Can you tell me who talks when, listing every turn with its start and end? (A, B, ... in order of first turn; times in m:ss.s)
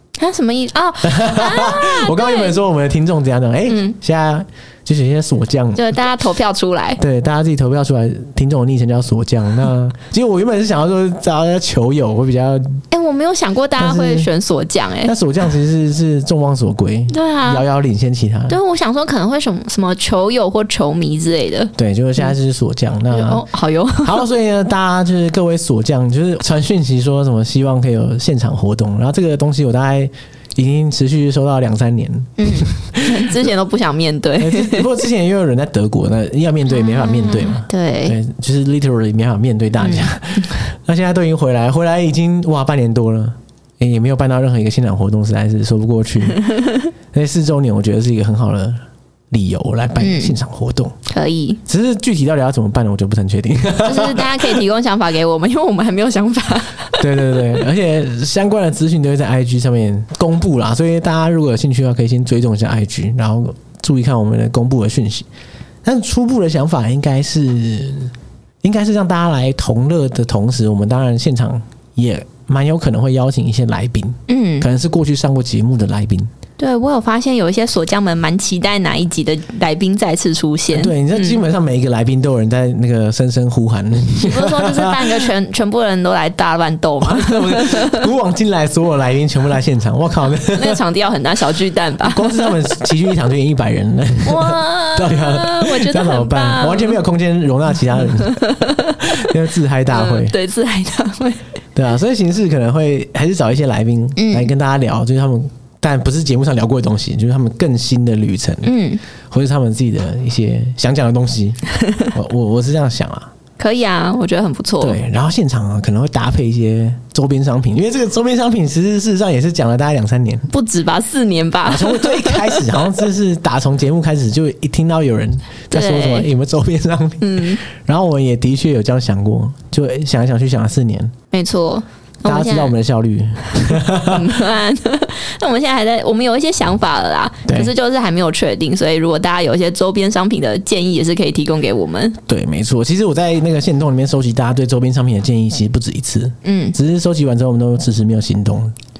0:00.2-0:02.6 A
0:01.0-0:05.9 B
0:03.7-0:04.0 A
0:05.7-0:07.0 A
0:07.0-0:12.8 B
0:12.9-0:15.1 A
0:13.8-0:14.3 B
0:15.0-0:18.6 B
0:17.1-0:17.6 A
0:18.5-0:21.7 A
0:21.8-0:23.4 B
0:23.1-0:24.2 A
0:24.0-0:33.3 B
0:32.4-0:34.9 A
0:34.4-0:46.6 B
0:36.7-0:38.2 A
0:39.8-0:40.1 A
0:47.1-0:48.8 B
0:49.3-0:51.0 B
0:50.0-0:50.3 A
0:51.1-0:51.6 A
0:51.6-0:54.6 B
0:53.8-0:57.0 A
0:57.0-1:05.2 B
1:05.8-1:08.1 B
1:08.6-1:16.3 B
1:14.3-1:14.7 A
1:16.6-1:21.4 A
1:20.7-1:25.3 B
1:24.2-1:28.0 A
1:27.0-1:30.8 B
1:30.5-1:32.5 A
1:32.0-1:38.4 B
1:34.2-1:37.0 A
1:38.1-1:39.3 A
1:39.0-1:40.4 B
1:39.9-1:41.4 A
1:41.7-1:48.7 B
1:44.2-1:44.5 A
1:48.6-1:49.0 A
1:49.3-1:53.3 B
1:53.6-1:55.0 A
1:54.8-2:00.5 B
2:00.5-2:02.6 A
2:01.6-2:11.1 B
2:05.7-2:06.3 A
2:07.2-2:07.6 A
2:11.3-2:12.7 A
2:12.2-2:14.4 B
2:13.7-2:22.2 A
2:17.5-2:17.7 B
2:22.3-2:28.7 B
2:26.4-2:26.8 A